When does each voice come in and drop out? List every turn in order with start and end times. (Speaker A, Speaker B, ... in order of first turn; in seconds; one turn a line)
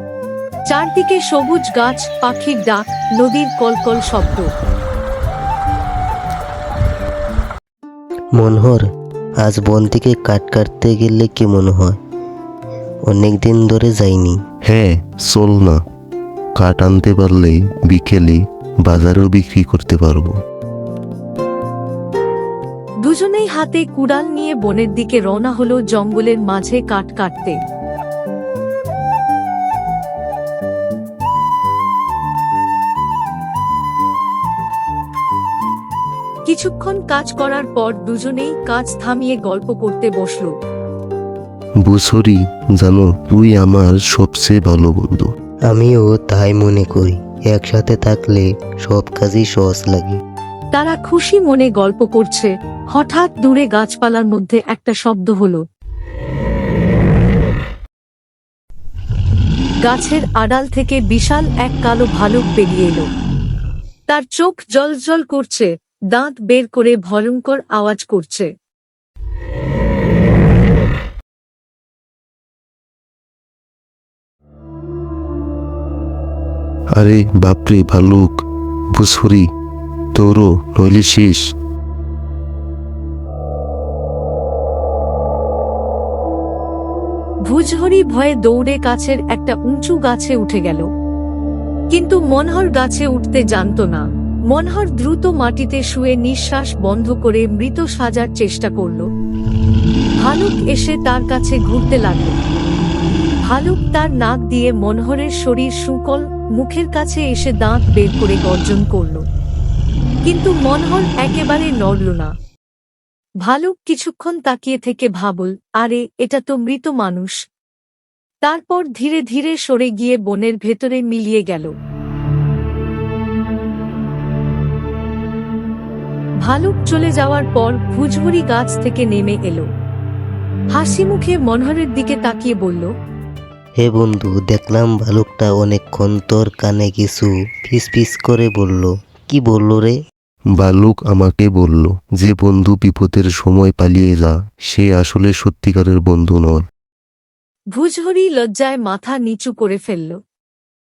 Speaker A: 0.7-4.5
Speaker B: 8.4-8.8
Speaker B: 9.4-12.0
Speaker B: 13.1-14.4
Speaker C: 14.7-15.8
Speaker C: 16.6-20.4
Speaker A: 23.0-27.6
Speaker A: 36.5-40.5
Speaker C: 41.9-45.3
Speaker B: 45.7-50.2
Speaker A: 50.7-55.6
Speaker A: 59.9-63.1
Speaker A: 64.1-68.5
Speaker C: 77.0-78.4
Speaker C: 79.0-79.5
Speaker C: 80.2-81.5
Speaker A: 87.5-90.9
Speaker A: 91.9-99.1
Speaker A: 100.2-102.4
Speaker A: 103.5-109.2
Speaker A: 110.3-112.3
Speaker A: 113.5-117.4
Speaker A: 118.5-121.7
Speaker A: 126.5-129.7
Speaker A: 130.7-132.9
Speaker B: 133.8-140.0
Speaker C: 140.6-146.7
Speaker A: 147.7-150.2